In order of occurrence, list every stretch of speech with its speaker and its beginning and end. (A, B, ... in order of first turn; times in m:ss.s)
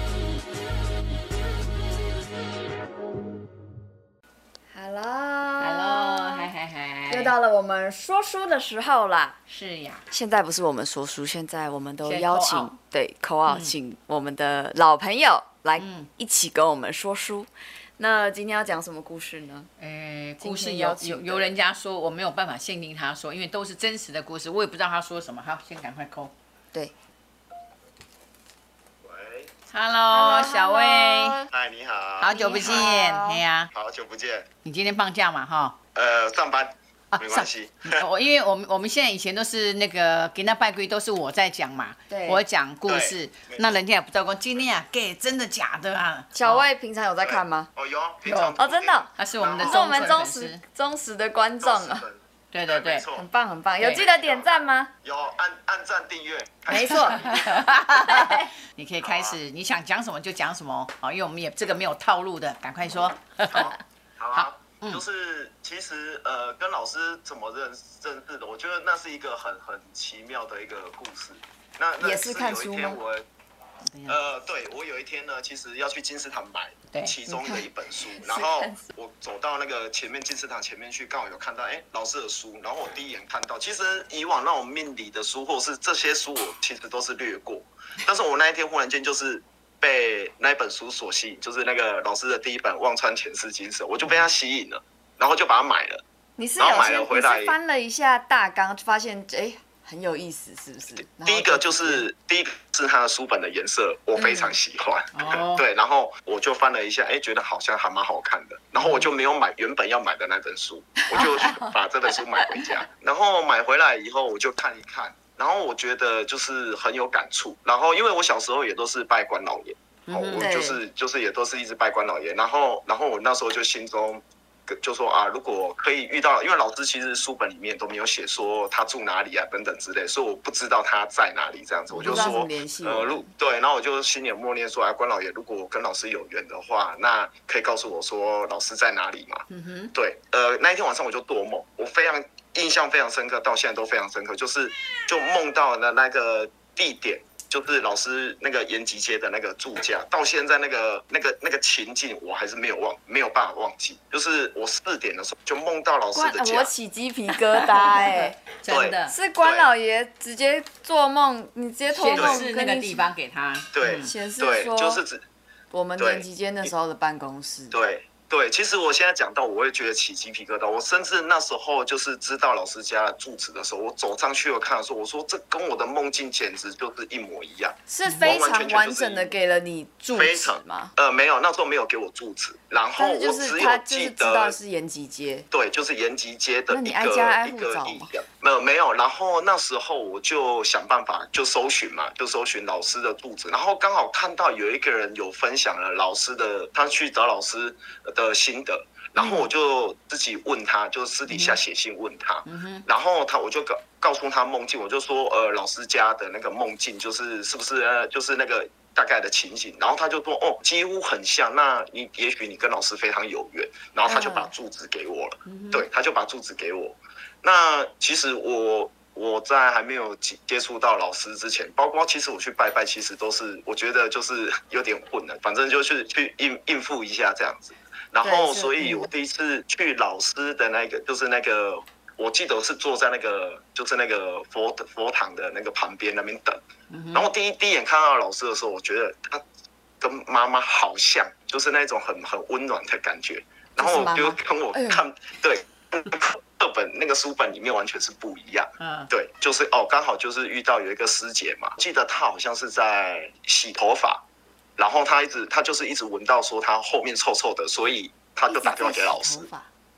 0:04.7-0:06.5 A
0:05.6-0:07.3 B
0:07.1-0:09.4 A
0:09.5-0:10.0 B
0:10.1-0:19.7 A
0:12.0-0:12.8 B
0:13.5-0:13.7 B
0:15.8-0:16.1 B
0:19.8-0:26.3 B
0:20.4-0:21.5 A
0:29.0-0:29.5 C
0:29.7-0:31.4 B
0:30.1-0:31.5 A
0:31.5-0:32.9 C
0:32.2-0:33.7 B
0:32.3-0:33.4 A
0:33.7-0:34.5 C
0:34.6-0:35.8 B
0:35.9-0:38.0 C
0:37.1-0:46.6 B
0:42.1-0:42.4 A
0:42.9-0:43.8 C
0:46.3-0:47.7 A
0:47.2-0:50.2 C
0:48.2-0:48.6 B
0:48.6-0:52.0 A
0:49.2-0:50.6 B
0:51.6-0:53.3 C
0:52.5-0:53.0 B
0:53.1-0:54.9 A
0:53.8-0:57.8 C
0:56.7-0:57.3 A
0:56.7-1:03.8 B
0:57.9-0:58.5 A
0:59.0-0:59.4 C
1:03.5-1:13.2 C
1:04.4-1:05.0 B
1:12.0-1:13.0 A
1:13.9-1:14.2 B
1:14.0-1:36.0 C
1:17.3-1:18.9 A
1:36.4-1:42.0 A
1:36.6-1:37.6 C
1:41.2-2:36.7 C
1:44.2-1:44.5 A
1:45.1-1:45.6 B
1:48.8-1:49.1 B
1:51.4-1:51.8 B
2:00.1-2:00.5 B
2:00.4-2:00.8 A
2:11.9-2:13.2 A
2:12.0-2:12.4 B
2:19.5-2:19.9 B
2:36.1-2:38.4 A
2:37.5-2:39.1 B
2:38.7-2:39.7 C
2:39.1-2:43.1 A
2:41.9-2:44.1 B
2:42.1-2:42.4 C
2:43.7-2:45.2 C
2:44.0-2:45.0 A
2:45.7-2:47.8 A
2:46.0-2:46.7 C
2:47.7-2:59.3 C
2:57.9-3:00.9 A
3:00.1-3:04.6 C
3:03.0-3:05.5 A
3:05.5-3:56.6 C
3:06.7-3:08.1 A
3:19.2-3:19.5 B
3:21.3-3:21.6 B
3:22.4-3:22.8 B
3:34.1-3:34.5 A
3:35.5-3:35.9 B
3:48.2-3:49.1 A
3:56.9-3:57.3 B
3:57.1-3:59.4 C
4:00.0-4:14.2 C
4:03.8-4:05.0 A
4:08.8-4:09.1 B
4:14.8-4:19.5 C
4:18.5-4:19.7 A